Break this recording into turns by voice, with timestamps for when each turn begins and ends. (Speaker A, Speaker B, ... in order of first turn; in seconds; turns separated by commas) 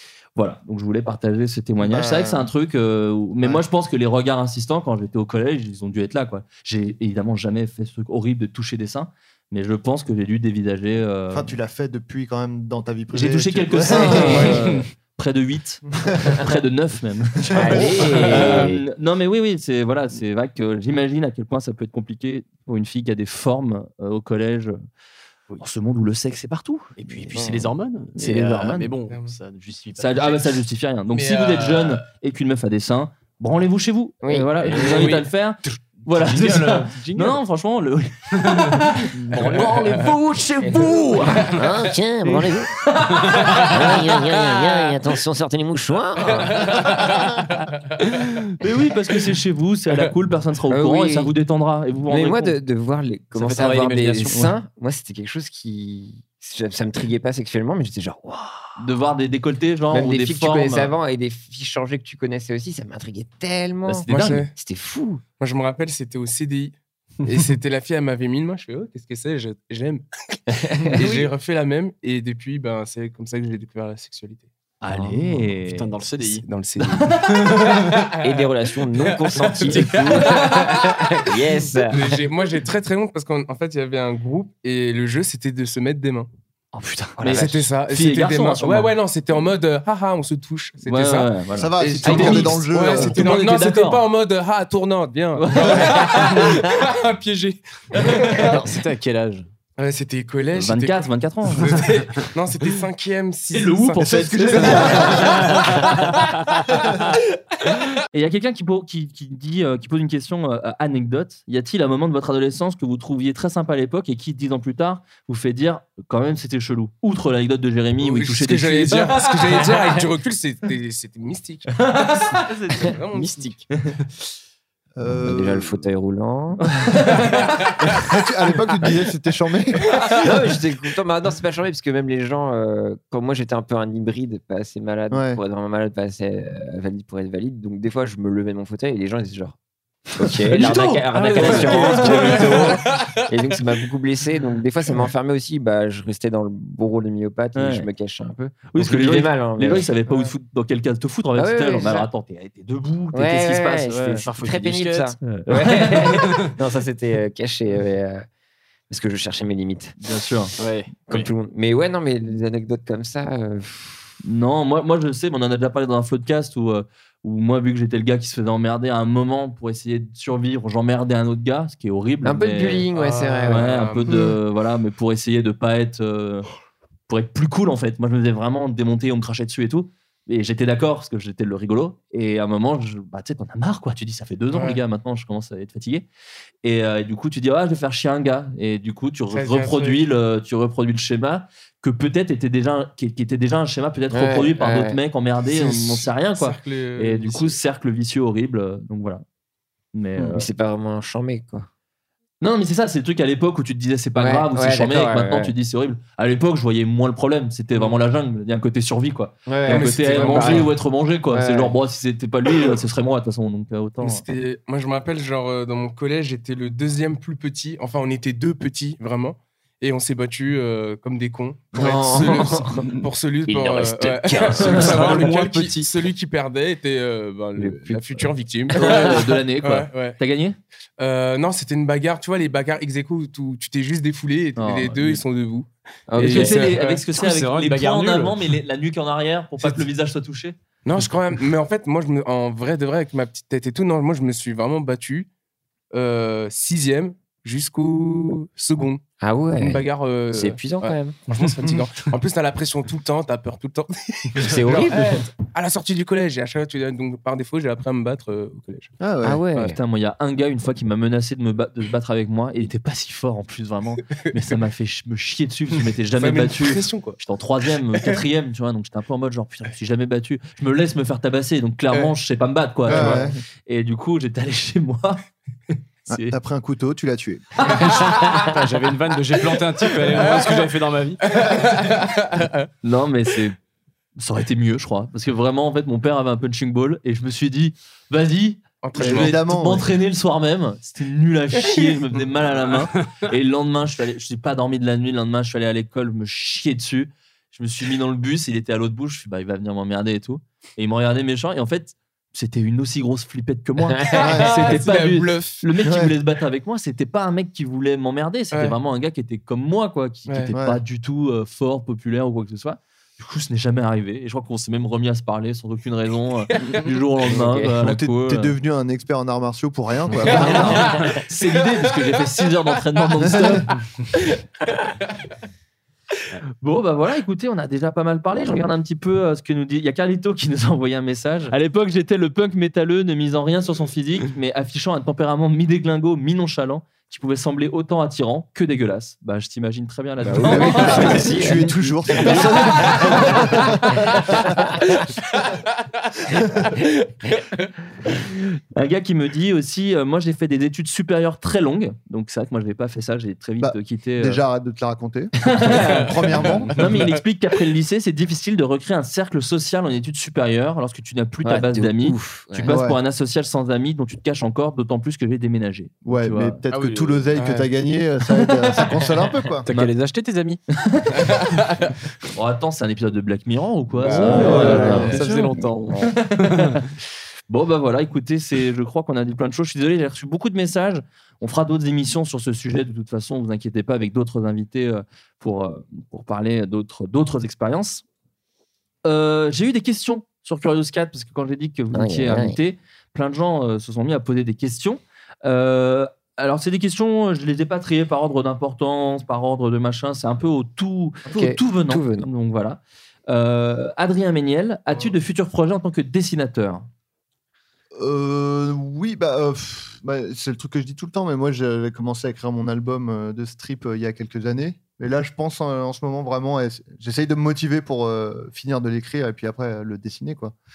Speaker A: 0.3-11.5, Speaker B: 1.8-2.5, Speaker B: 11.3-14.6, Speaker A: 13.1-24.7, Speaker C: 14.4-14.8, Speaker D: 17.5-18.8, Speaker B: 17.6-17.9, Speaker C: 17.7-18.7, Speaker A: 25.6-27.3, Speaker C: 27.0-30.6, Speaker D: 27.3-27.6, Speaker A: 28.1-28.9, Speaker E: 29.1-29.4, Speaker A: 30.0-41.6, Speaker E: 31.1-32.0, Speaker D: 34.2-34.5, Speaker C: 34.6-37.4, Speaker C: 38.4-38.7, Speaker C: 39.3-39.7, Speaker E: 39.7-40.1, Speaker D: 40.6-42.7, Speaker A: 42.8-43.8, Speaker D: 43.6-46.7, Speaker E: 46.5-47.2, Speaker A: 48.6-52.5, Speaker D: 50.7-51.3, Speaker D: 52.1-58.8, Speaker C: 53.3-54.5, Speaker A: 58.8-60.9, Speaker D: 59.9-65.2, Speaker A: 63.9-64.5, Speaker E: 64.1-64.5, Speaker E: 65.4-70.0, Speaker D: 70.5-71.0, Speaker E: 70.8-74.5, Speaker A: 74.8-75.9, Speaker C: 75.0-76.5, Speaker E: 76.3-78.2, Speaker A: 77.0-77.7, Speaker D: 78.2-82.2, Speaker E: 79.0-81.3, Speaker E: 81.9-86.3, Speaker A: 86.7-88.9, Speaker D: 87.2-87.5, Speaker E: 87.3-98.6, Speaker A: 90.8-94.0, Speaker B: 91.5-93.4, Speaker A: 95.4-96.5, Speaker C: 98.3-99.5, Speaker E: 99.8-105.5, Speaker A: 100.5-101.8, Speaker A: 103.5-105.7, Speaker B: 104.0-105.4, Speaker A: 108.1-119.8, Speaker E: 118.0-123.5, Speaker A: 121.8-122.9, Speaker C: 123.1-124.2, Speaker B: 125.0-125.9, Speaker D: 125.2-126.6, Speaker A: 126.8-127.4, Speaker B: 127.9-130.2, Speaker D: 130.2-139.6, Speaker B: 135.1-135.4, Speaker D: 140.1-149.9, Speaker A: 140.5-142.7, Speaker E: 141.4-143.2, Speaker A: 147.5-147.9, Speaker A: 148.7-154.2, Speaker D: 151.3-152.1, Speaker D: 153.1-158.2, Speaker C: 154.2-156.5, Speaker A: 155.2-156.2, Speaker D: 158.9-159.9, Speaker A: 160.0-160.5, Speaker C: 160.6-161.3, Speaker D: 161.1-164.1, Speaker A: 164.2-172.8, Speaker D: 172.2-173.7, Speaker E: 172.9-174.1, Speaker A: 173.5-176.5, Speaker A: 177.1-186.1, Speaker E: 184.5-184.8, Speaker A: 186.6-199.2, Speaker E: 189.3-190.0, Speaker D: 194.1-195.0, Speaker E: 195.4-197.6, Speaker A: 199.9-200.5, Speaker D: 200.2-201.7, Speaker A: 202.4-214.2, Speaker D: 204.2-205.5, Speaker D: 209.5-210.7, Speaker E: 209.7-210.8, Speaker D: 211.3-211.7, Speaker E: 214.0-230.2, Speaker D: 221.7-222.8, Speaker D: 223.4-225.1, Speaker C: 224.2-225.9, Speaker A: 224.7-225.2, Speaker D: 227.6-229.1, Speaker A: 228.8-230.6, Speaker E: 231.0-237.1, Speaker A: 234.6-235.2, Speaker D: 236.1-236.7, Speaker A: 236.2-240.6, Speaker C: 237.1-238.6, Speaker E: 240.8-245.3, Speaker E: 245.9-249.0, Speaker D: 249.2-251.2, Speaker E: 249.6-258.9, Speaker D: 254.4-255.2, Speaker C: 254.4-254.9, Speaker B: 259.0-259.4, Speaker D: 259.2-259.8, Speaker A: 259.7-275.2, Speaker E: 266.1-267.2, Speaker E: 272.9-273.3, Speaker B: 272.9-273.4, Speaker A: 276.0-276.4, Speaker B: 276.1-277.7, Speaker C: 277.7-281.4, Speaker A: 277.9-278.4, Speaker E: 281.2-282.5, Speaker A: 282.8-283.6, Speaker A: 284.2-318.5, Speaker E: 288.8-289.4, Speaker B: 289.0-289.9, Speaker E: 304.1-305.6, Speaker B: 304.2-304.7, Speaker B: 305.8-306.1, Speaker E: 310.3-310.5, Speaker B: 310.5-310.8, Speaker D: 317.3-317.7, Speaker B: 317.8-320.9, Speaker A: 320.3-323.8, Speaker D: 320.4-321.0, Speaker B: 323.3-323.6, Speaker A: 326.6-341.4, Speaker D: 328.4-328.6, Speaker D: 340.2-341.7, Speaker B: 340.3-344.5, Speaker A: 342.2-343.8, Speaker A: 348.2-354.4, Speaker B: 353.6-356.8, Speaker A: 355.4-356.1, Speaker C: 356.4-356.9, Speaker A: 356.7-366.6, Speaker D: 361.4-362.7, Speaker B: 362.6-363.0, Speaker B: 366.0-369.7, Speaker C: 366.7-367.3, Speaker E: 367.3-367.7, Speaker A: 369.6-369.9, Speaker C: 369.7-370.6, Speaker A: 370.8-371.3, Speaker A: 372.3-375.4, Speaker C: 374.0-376.9, Speaker B: 374.0-375.2, Speaker D: 374.2-375.2, Speaker A: 376.0-376.8, Speaker A: 377.5-388.0, Speaker A: 389.0-406.9, Speaker D: 391.9-392.6, Speaker D: 401.3-402.3, Speaker B: 407.9-420.5